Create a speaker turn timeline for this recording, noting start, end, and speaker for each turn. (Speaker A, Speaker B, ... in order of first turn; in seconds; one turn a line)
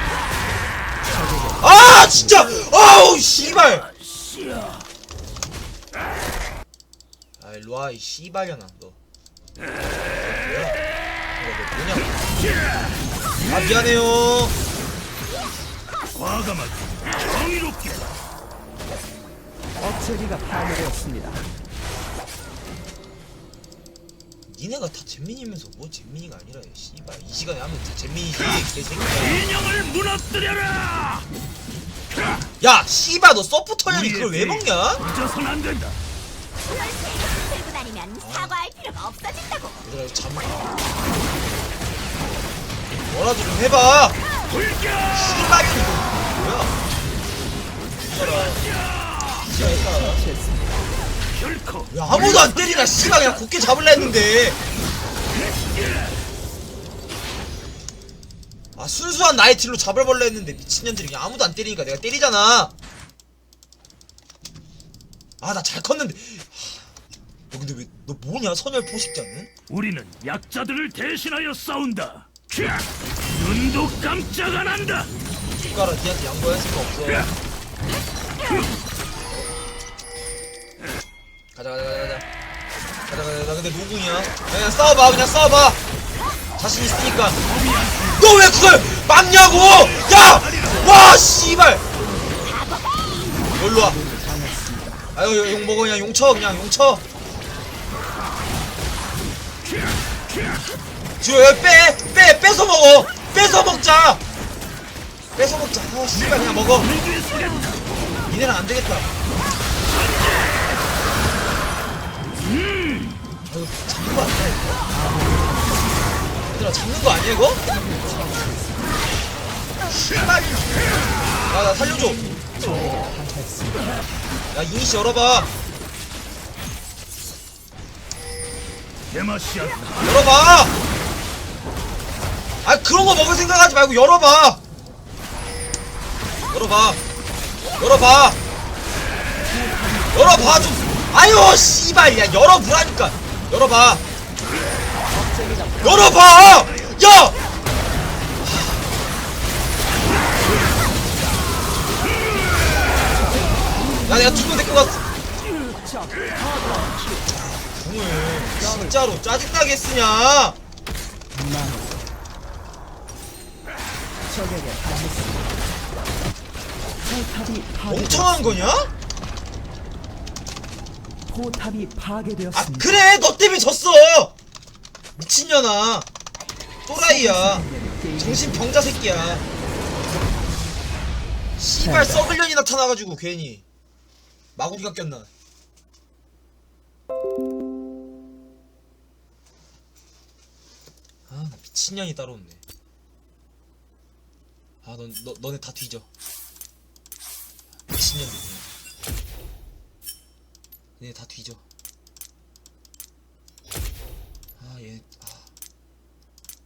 Speaker A: 1.1-2.5
Speaker B: 1.6-3.9
Speaker B: 7.4-9.0
Speaker B: 10.1-10.8
Speaker B: 11.3-12.2
Speaker B: 13.4-14.6
Speaker C: 16.1-18.0
Speaker A: 19.8-21.5
Speaker B: 24.5-29.5
Speaker C: 29.4-31.2
Speaker B: 32.6-35.0
Speaker C: 33.9-36.0
Speaker D: 36.8-39.8
Speaker B: 38.2-38.6
Speaker B: 39.8-40.7
Speaker B: 43.1-44.2
Speaker C: 44.6-45.0
Speaker B: 45.1-46.8
Speaker B: 48.0-48.7
Speaker B: 49.4-50.2
Speaker A: 49.5-50.8
Speaker C: 51.5-51.8
Speaker B: 51.9-54.6
Speaker B: 58.8-62.7
Speaker B: 65.4-66.9
Speaker B: 67.5-69.5
Speaker C: 69.7-75.1
Speaker B: 75.6-77.3
Speaker B: 81.5-82.2
Speaker B: 83.1-85.8
Speaker B: 86.6-87.4
Speaker C: 87.5-88.2
Speaker B: 88.1-91.8
Speaker D: 92.5-93.4
Speaker B: 93.5-94.0
Speaker A: 93.7-95.1
Speaker B: 95.1-97.0
Speaker B: 101.2-104.2
Speaker B: 105.4-107.0
Speaker C: 107.0-107.7
Speaker B: 108.3-109.1
Speaker B: 113.5-114.9
Speaker A: 114.9-116.2
Speaker B: 116.5-117.6
Speaker A: 117.7-119.0
Speaker B: 119.9-122.2
Speaker A: 122.1-124.0
Speaker B: 124.5-125.5
Speaker C: 129.1-130.0
Speaker B: 130.0-130.8
Speaker B: 132.6-134.6
Speaker B: 136.5-137.0
Speaker B: 137.8-138.4
Speaker A: 139.4-141.0
Speaker B: 140.1-144.0
Speaker A: 145.1-146.2
Speaker B: 145.8-147.4
Speaker B: 148.4-148.9
Speaker A: 153.1-154.9
Speaker B: 154.1-155.0
Speaker A: 155.5-157.3
Speaker B: 157.3-160.6
Speaker A: 158.6-159.0
Speaker A: 161.3-162.1
Speaker A: 164.2-165.7
Speaker A: 167.0-168.6
Speaker B: 167.9-168.9
Speaker A: 171.2-173.0
Speaker B: 172.5-174.3
Speaker B: 175.2-176.1
Speaker B: 176.9-179.5
Speaker A: 177.0-178.7
Speaker B: 181.6-183.6
Speaker A: 181.8-182.2
Speaker B: 184.6-185.3
Speaker B: 191.3-192.6
Speaker B: 194.8-196.1
Speaker B: 197.9-198.7
Speaker B: 201.0-201.6
Speaker B: 204.6-205.5